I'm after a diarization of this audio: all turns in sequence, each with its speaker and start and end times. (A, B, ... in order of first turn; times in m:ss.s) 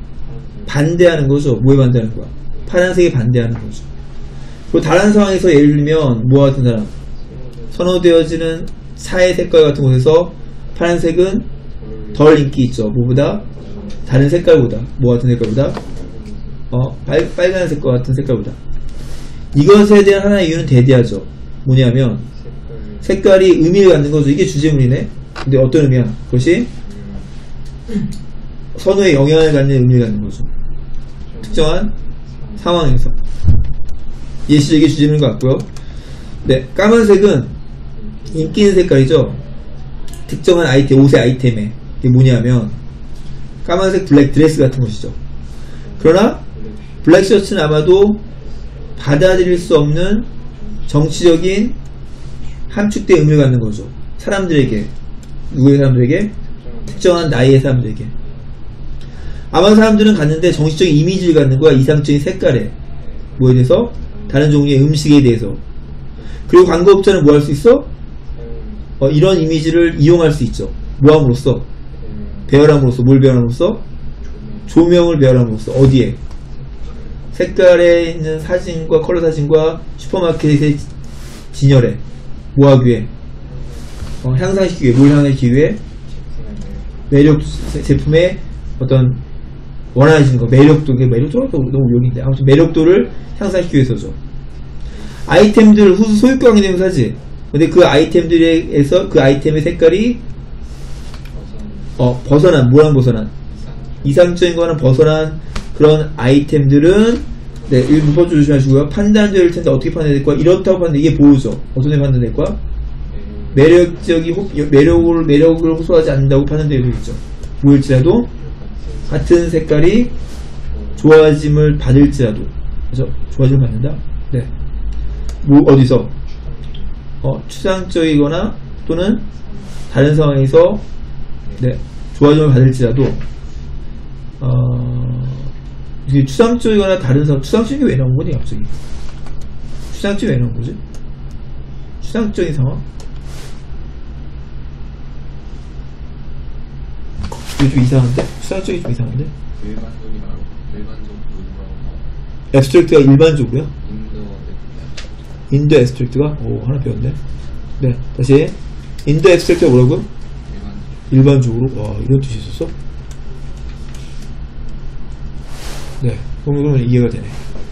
0:00.2-0:00.8 A
0:00.7-0:03.9 B
0:04.7-0:06.9 B
0:07.2-0:08.0 A
0:07.7-0:11.5 B
0:11.8-0:12.5 A
0:12.2-0:13.4 B
0:13.4-0:14.1 A
0:14.1-0:15.8 B
0:15.8-0:16.7 A
0:16.7-0:18.6 B
0:19.5-0:22.2 B
0:22.3-0:23.2 A
0:23.0-0:26.7 B
0:26.7-0:27.3 A
0:28.8-0:30.5 B
0:31.3-0:32.6 A
0:31.5-0:31.9 B
0:32.6-0:33.2 B
0:34.5-0:35.7 B
0:36.4-0:37.6 B
0:37.9-0:38.6 A
0:38.3-0:39.4 B
0:40.3-0:42.8 B
0:43.6-0:45.2 B
0:45.9-0:47.1 A
0:46.0-0:46.4 B
0:47.0-0:48.2 B
0:49.0-0:50.3 B
0:50.4-0:51.1 A
0:50.9-0:51.8 B
0:52.7-0:54.9 B
0:55.5-0:56.4 B
0:56.4-0:57.4 A
0:56.9-0:58.1 B
0:59.5-1:02.8 B
1:03.4-1:05.6 B
1:03.9-1:04.6 A
1:06.5-1:07.9 B
1:08.3-1:09.0 A
1:09.0-1:11.6 B
1:12.0-1:12.5 A
1:12.5-1:13.8 B
1:14.2-1:14.9 A
1:14.7-1:16.2 B
1:17.3-1:20.9 B
1:21.5-1:22.0 B
1:22.6-1:23.1 B
1:23.5-1:23.8 A
1:24.2-1:25.8 B
1:26.0-1:27.1 A
1:27.1-1:29.2 B
1:29.9-1:34.2 B
1:35.2-1:40.2 B
1:41.3-1:42.0 A
1:42.0-1:43.3 B
1:43.4-1:44.4 A
1:44.0-1:52.6 B
1:53.1-1:54.9 A
1:53.5-1:58.3 B
1:58.3-1:59.3 A
1:59.1-2:00.1 B
2:00.6-2:01.2 A
2:01.0-2:04.5 B
2:05.4-2:06.1 B
2:06.2-2:07.0 A
2:07.2-2:09.2 B
2:09.2-2:09.8 A
2:09.9-2:10.8 B
2:11.6-2:13.2 B
2:14.4-2:15.5 B
2:16.0-2:18.7 B
2:19.9-2:20.8 B
2:22.0-2:22.8 B
2:27.6-2:29.3 B
2:29.5-2:32.2 A
2:32.5-2:33.7 B
2:33.8-2:35.4 A
2:35.5-2:37.2 B
2:37.8-2:40.1 B
2:40.4-2:41.1 A
2:41.1-2:42.7 B
2:46.0-2:47.4 B